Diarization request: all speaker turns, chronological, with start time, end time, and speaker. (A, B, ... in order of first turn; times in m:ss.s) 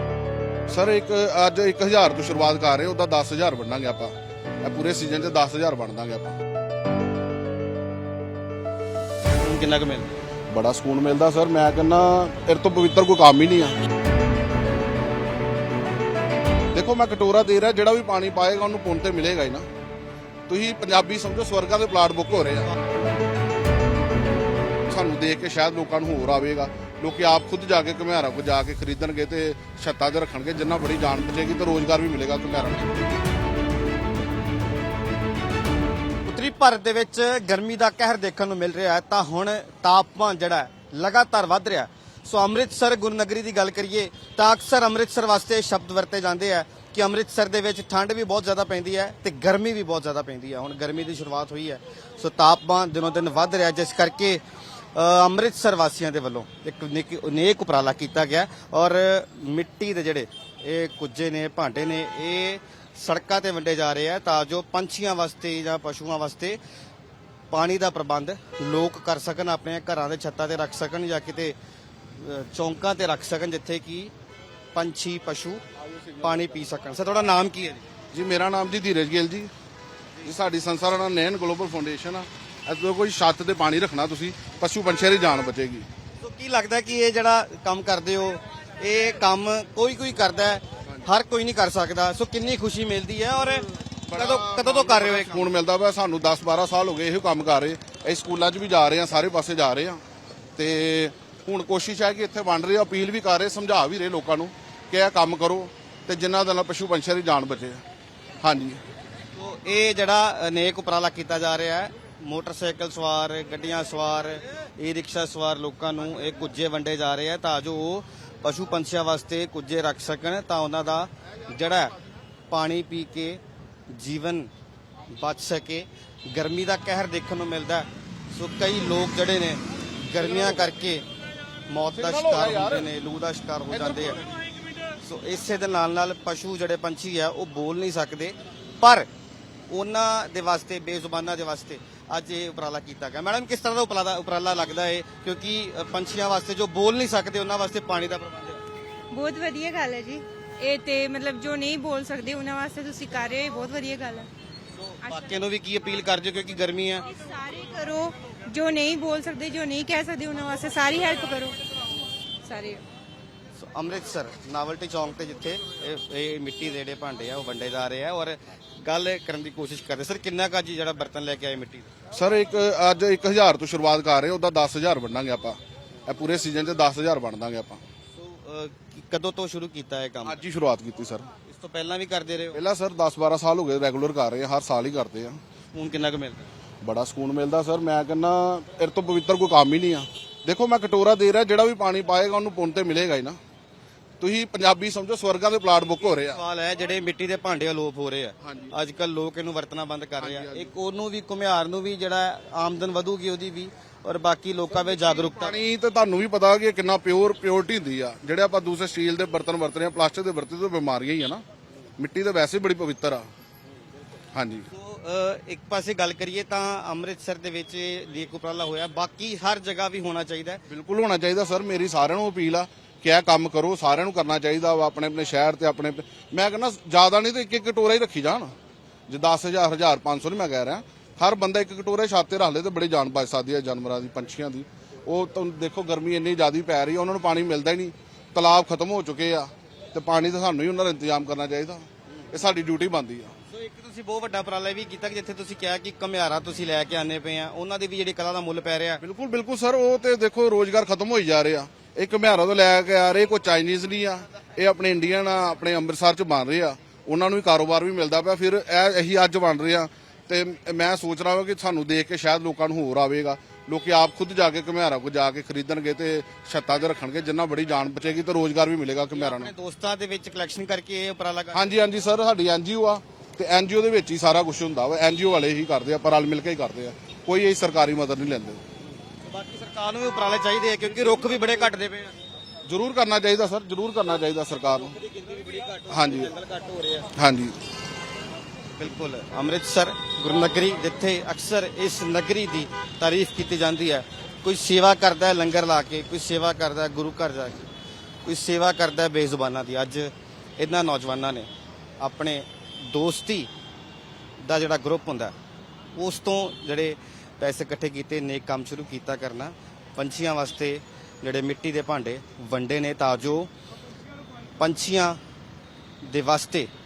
0:00.7-0:06.4 A
0:09.4-0:10.1 B
0:10.5-0:13.7 A
0:16.7-0:19.7 A
0:20.5-0:22.7 A
0:24.9-0:32.9 A
0:36.3-0:54.4 B
0:54.9-1:06.6 B
1:07.5-1:11.6 B
1:12.2-1:14.1 B
1:14.7-1:15.6 B
1:16.2-1:17.8 B
1:18.1-1:19.5 A
1:20.2-1:25.9 A
1:26.2-1:35.5 B
1:34.1-1:40.0 A
1:40.6-1:47.8 A
1:48.4-1:48.8 A
1:49.4-2:01.9 B
2:02.5-2:04.5 B
2:05.1-2:11.0 B
2:10.2-2:10.7 A
2:11.7-2:14.2 B
2:12.0-2:12.9 A
2:13.7-2:14.2 A
2:15.0-2:19.1 B
2:19.7-2:28.6 B
2:29.1-2:34.3 C
2:34.8-2:37.1 B
2:37.1-2:41.6 C
2:42.4-2:42.8 C
2:43.6-2:51.9 B
2:52.1-2:57.8 A
2:58.1-3:00.4 B
3:00.3-3:01.3 A
3:01.5-3:02.6 B
3:02.5-3:05.4 A
3:05.7-3:06.5 B
3:06.8-3:13.4 A
3:14.2-3:16.4 A
3:16.0-3:25.6 B
3:18.4-3:18.7 A
3:20.2-3:20.7 A
3:25.1-3:31.4 A
3:32.0-3:33.3 A
3:34.3-3:34.7 A
3:34.7-3:40.6 B
3:40.7-3:48.6 A
3:49.1-4:03.3 A
4:03.5-4:09.0 B
4:09.0-4:29.5 A
4:29.1-4:31.7 B
4:31.5-4:38.6 A
4:39.2-4:42.1 B
4:42.7-4:45.0 A
4:45.0-4:47.0 B
4:45.9-4:46.3 A
4:47.1-4:47.6 A
4:48.8-4:57.7 B
4:58.2-5:01.5 B
5:02.0-5:03.5 B
5:04.4-5:05.4 B
5:06.0-5:13.5 B
5:14.6-5:15.2 B
5:16.0-5:16.7 B